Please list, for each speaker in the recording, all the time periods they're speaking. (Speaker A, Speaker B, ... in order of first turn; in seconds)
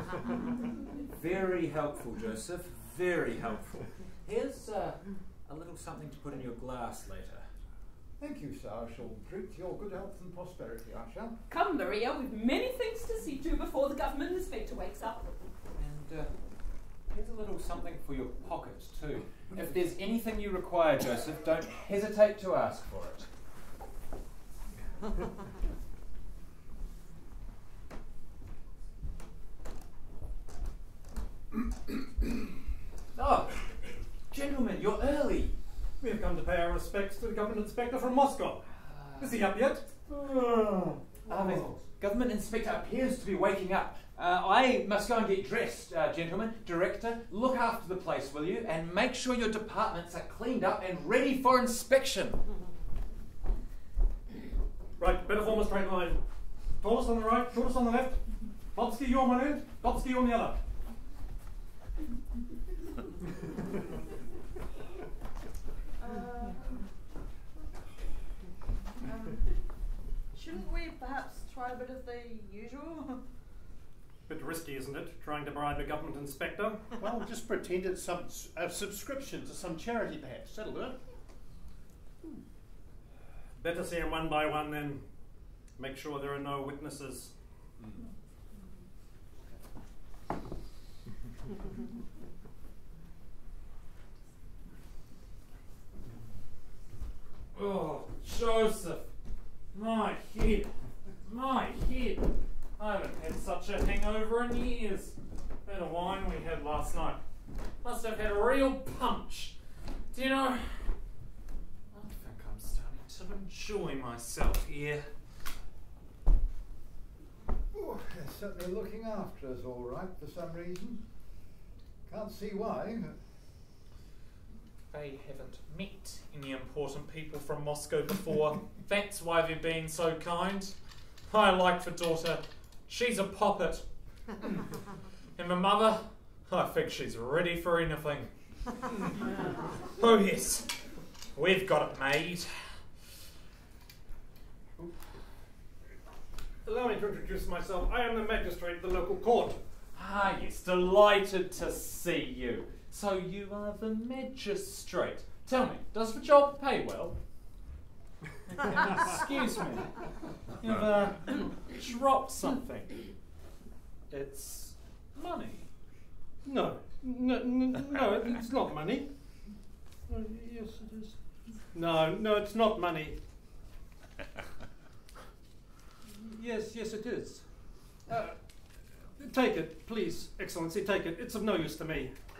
Speaker A: 1.1-7.5, 15.8-16.3, 17.1-23.3, 33.1-33.6, 34.3-35.5, 38.8-39.4, 41.2-52.4
Speaker B: 8.2-11.3, 117.7-121.0, 122.1-123.2
Speaker C: 11.5-15.3
Speaker D: 36.0-38.7, 39.2-41.7, 55.0-56.2, 56.8-58.2, 58.7-60.6, 74.3-76.9, 83.6-85.0, 85.8-87.3, 146.6-149.6, 166.4-169.1, 170.1-171.1, 171.7-173.2, 176.2-177.4, 178.1-178.3, 179.2-182.1
Speaker E: 66.0-66.8, 69.0-69.4, 70.3-73.2
Speaker F: 77.0-81.0
Speaker G: 97.5-99.1, 99.7-100.7, 101.2-107.2, 107.8-109.5, 110.1-110.9, 111.9-115.0, 124.9-130.7, 131.3-133.8, 135.4-138.3, 139.9-140.7, 141.3-142.6, 149.9-157.2, 158.6-159.9, 160.6-162.9, 164.1-165.7